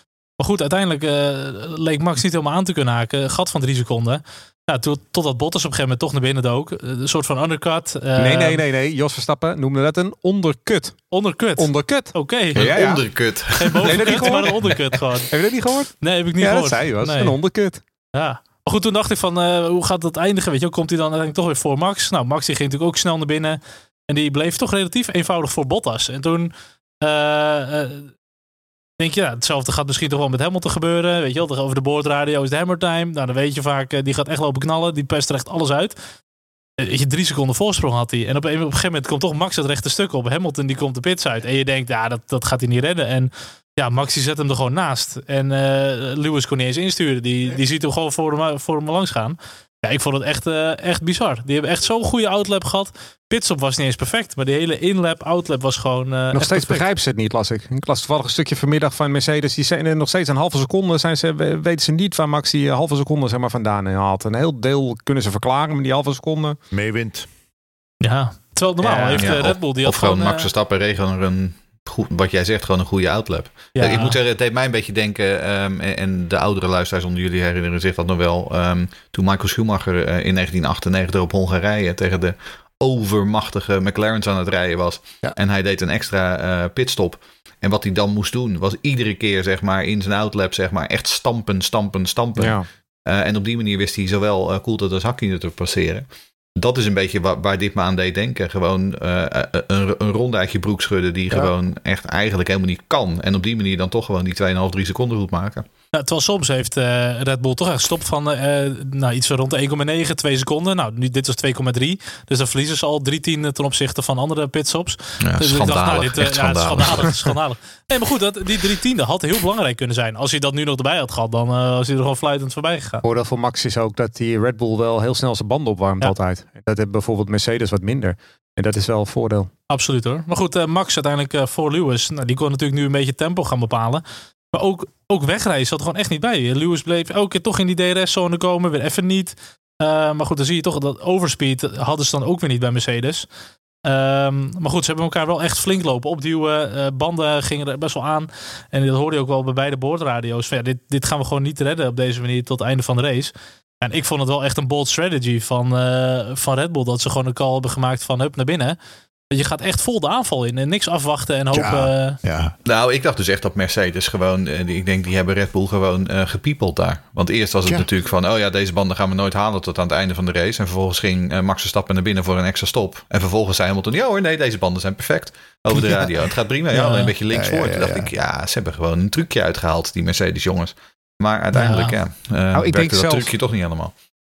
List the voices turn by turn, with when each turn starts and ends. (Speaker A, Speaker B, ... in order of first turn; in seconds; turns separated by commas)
Speaker A: 0.4-8.6, Speaker B: 8.2-13.0, Speaker A: 11.1-12.8, Speaker C: 12.5-14.7, Speaker A: 13.5-15.3, Speaker B: 13.8-14.6, Speaker B: 15.3-17.8, Speaker A: 16.0-17.4, Speaker A: 18.1-26.5, Speaker A: 27.0-28.1, Speaker A: 29.0-36.0, Speaker A: 36.8-56.8, Speaker B: 56.3-66.6, Speaker D: 66.7-67.3, Speaker A: 68.0-70.5, Speaker B: 68.8-69.3, Speaker C: 69.1-105.6, Speaker A: 73.8-74.2, Speaker B: 92.4-92.6, Speaker A: 105.9-123.0, Speaker C: 115.2-117.3, Speaker B: 123.0-129.5, Speaker A: 129.7-143.2, Speaker A: 143.8-158.8, Speaker A: 159.3-162.2, Speaker D: 161.5-162.5, Speaker C: 162.6-183.9, Speaker A: 176.7-177.1, Speaker D: 177.3-178.1, Speaker A: 181.5-181.9, Speaker B: 182.5-183.3